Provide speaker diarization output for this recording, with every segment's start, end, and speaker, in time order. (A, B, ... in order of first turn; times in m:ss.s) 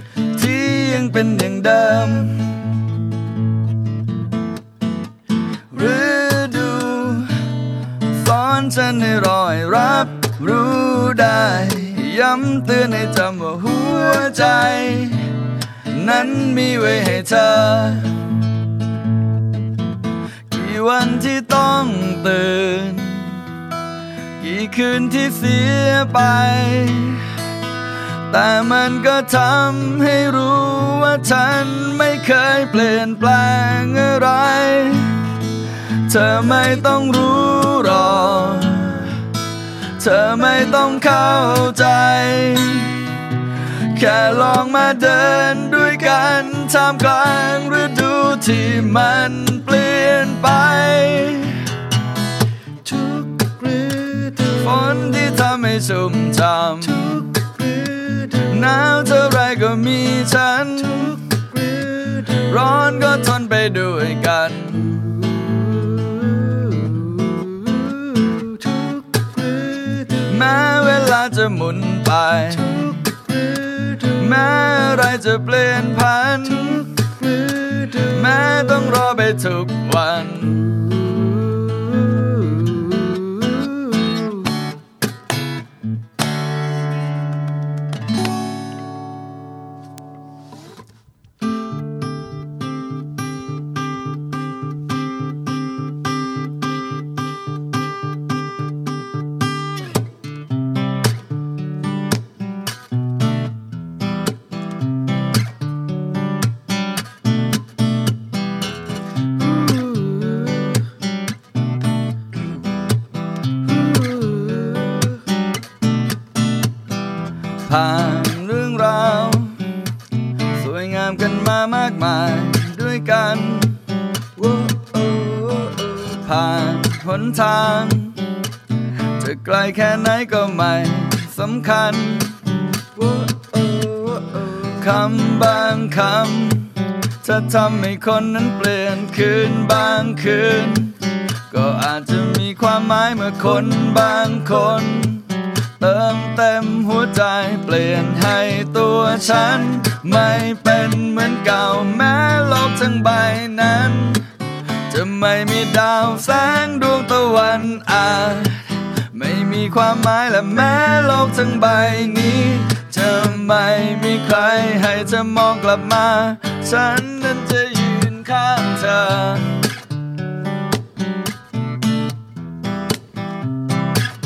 0:00.4-0:02.5 A
0:05.7-0:07.3 A
0:08.1-0:15.3 A
0:15.9-0:18.1 A
0:20.5-0:23.4 A
0:24.4-0:27.2 A
0:28.3-0:35.3 A
0:36.1-0:39.2 A
0:40.0-0:43.0 A
0:43.9-0:51.6 A
0:52.9-1:05.4 A
1:09.9-1:13.2 A
1:13.7-1:21.2 A
1:57.7-1:59.6 A
2:00.6-2:03.8 A
2:04.4-2:08.2 A
2:09.2-2:21.0 A
2:21.5-2:34.3 A
2:34.9-2:49.6 A